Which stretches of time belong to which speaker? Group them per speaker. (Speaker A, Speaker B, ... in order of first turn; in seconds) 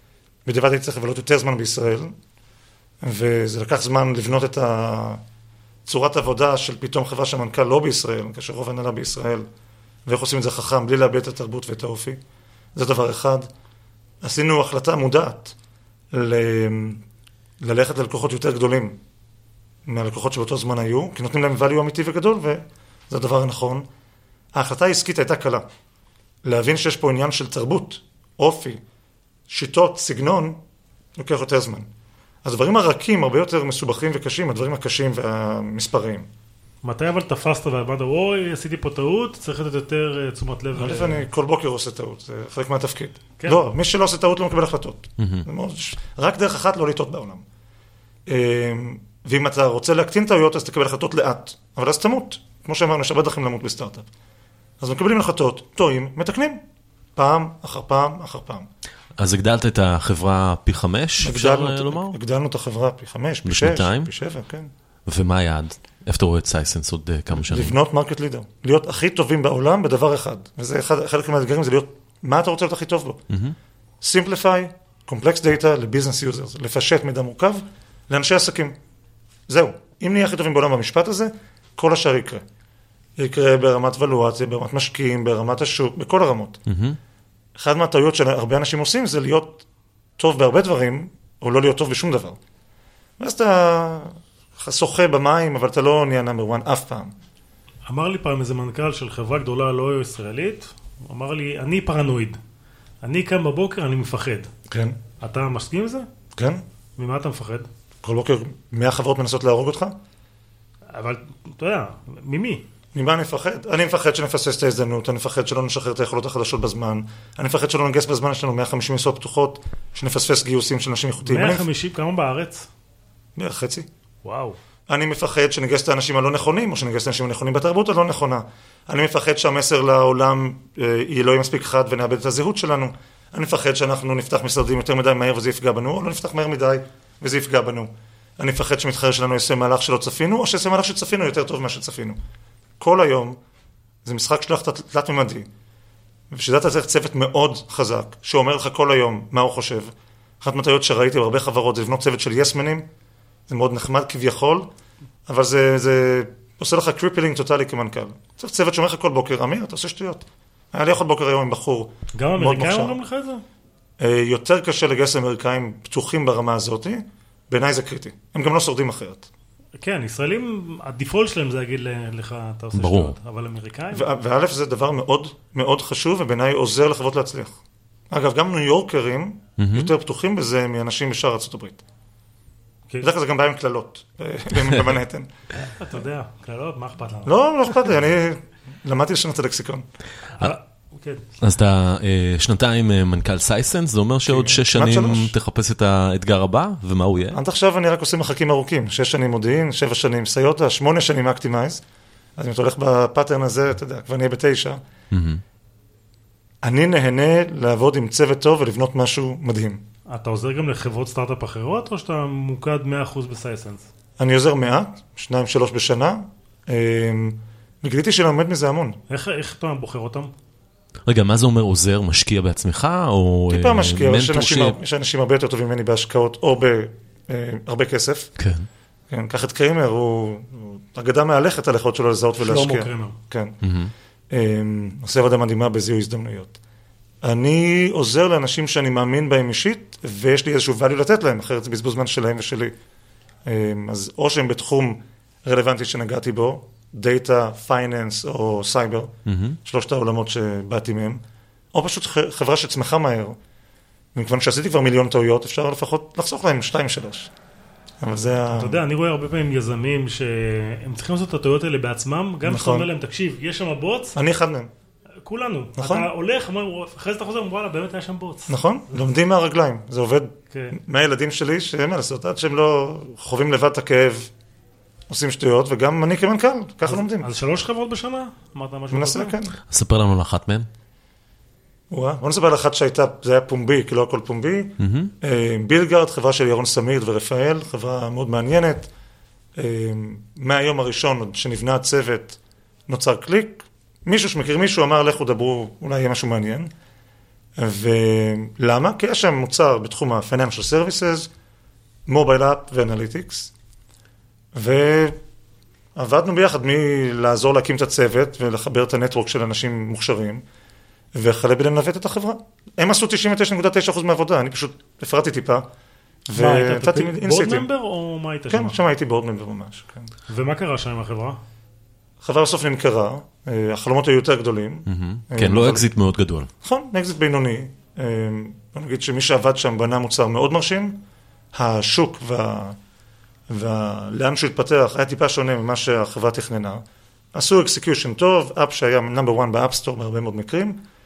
Speaker A: 0.4-2.1, 3.0-5.2, 5.8-9.5, 10.1-12.2, 12.7-13.5, 14.2-15.5, 16.1-17.0, 17.6-19.0, 19.8-23.9, 24.5-25.6, 26.4-28.8, 29.5-30.6, 31.1-31.9, 32.4-36.3, 40.7-47.4, 48.3-54.1, 54.8-56.6, 57.1-58.7, 61.2-64.7, 67.3-73.2, 74.0-78.8, 79.5-82.4, 83.2-86.6, 87.6-89.7, 90.2-92.4, 93.2-97.1, 104.7-105.0, 106.3-106.6, 108.0-109.9, 112.9-121.7, 123.3-123.9, 124.9-142.2, 142.8-143.4, 144.0-145.5, 146.3-152.8, 153.5-154.7, 155.3-162.9, 164.0-169.3, 173.9-177.6, 178.1-181.8, 183.0-185.3, 187.2-189.8, 194.2-195.3, 197.3-201.8, 202.4-204.8, 206.6-209.8, 214.2-219.0, 223.5-228.3, 229.1-233.6, 234.3-236.6, 237.2-242.7, 243.4-249.1, 249.6-251.2, 251.7-253.4, 254.1-257.3, 258.0-258.8, 262.4-262.9, 264.1-264.7, 265.8-266.1, 268.5-274.3, 275.1-277.3, 278.9-279.6, 281.9-288.9, 289.6-296.7, 297.6-301.3, 302.1-303.5, 304.5-305.2, 305.9-310.4, 311.1-315.7, 316.3-317.7, 318.5-320.1, 322.2-325.9, 326.6-331.0, 331.5-332.8, 333.5-336.8, 337.3-340.8
Speaker B: 36.8-41.2, 43.4-43.6, 97.9-102.4, 103.0-104.5, 105.2-106.1, 107.0-107.7, 110.9-112.6, 121.2-122.7, 124.2-124.6, 162.1-163.4, 169.8-174.1, 185.7-187.3, 190.4-191.3, 210.1-213.9, 219.1-220.3, 232.4-233.2, 258.5-264.1, 265.2-269.0, 270.5-270.8, 276.9-279.3, 316.3-318.8, 320.3-321.4
Speaker C: 45.2-45.5, 59.2-62.1, 63.4-64.1, 65.1-67.7, 73.3-73.5, 86.7-87.0, 172.7-173.2, 179.6-179.9, 191.4-197.4, 205.1-205.4, 221.1-224.8, 228.4-228.7, 233.6-233.9, 249.2-249.6, 279.7-280.7, 284.8-285.1, 324.9-326.5